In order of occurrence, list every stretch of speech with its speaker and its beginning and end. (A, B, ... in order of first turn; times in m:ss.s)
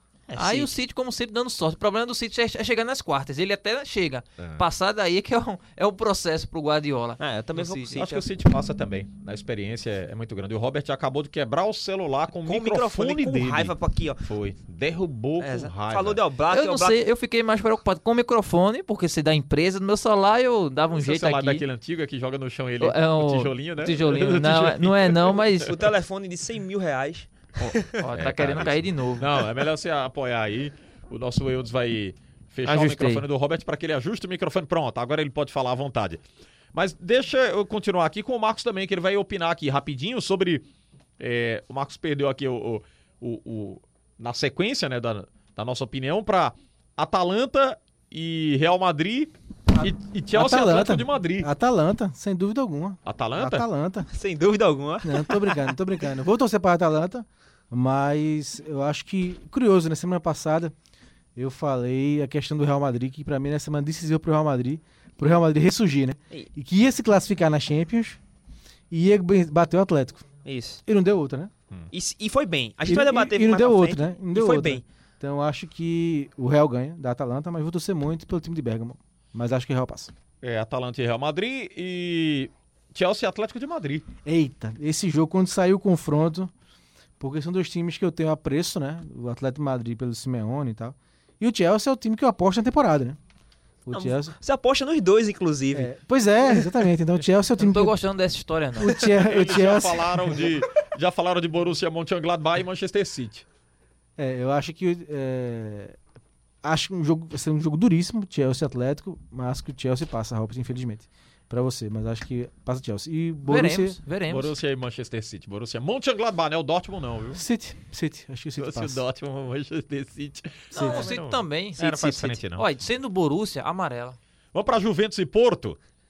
0:00.3-0:00.7 A
0:00.3-0:08.0 B
0:07.2-0:08.3 A
0:07.9-0:16.2 C
0:12.4-0:14.3 A
0:15.4-0:17.0 A
0:16.5-0:21.6 B
0:20.9-0:25.8 C
0:22.8-0:25.8 B
0:25.6-0:28.0 A
0:27.6-0:36.2 C
0:28.0-0:29.3 B
0:32.6-0:33.2 B
0:36.7-0:40.6 C
0:41.2-0:51.5 C
0:49.7-0:54.1 D
0:53.0-0:53.6 C
0:54.1-0:55.8 A
0:55.0-1:00.7 D
1:01.4-1:08.2 D
1:08.9-1:10.2 D
1:10.4-1:10.8 A
1:10.9-1:11.5 D
1:11.9-1:14.8 A
1:12.8-1:20.1 D
1:20.4-1:24.1 C
1:24.2-1:26.5 D
1:27.2-1:33.2 D
1:33.8-1:34.3 D
1:33.9-1:35.9 A
1:35.7-1:37.9 D
1:36.4-1:36.7 A
1:37.6-1:39.0 B
1:38.8-1:40.5 D
1:39.2-1:43.4 C
1:44.2-1:46.0 D
1:46.6-1:54.0 D
1:53.5-1:54.5 B
1:54.3-1:57.4 C
1:57.3-1:59.0 D
1:58.6-2:02.7 C
2:00.7-2:04.2 B
2:00.7-2:01.1 D
2:04.5-2:05.8 C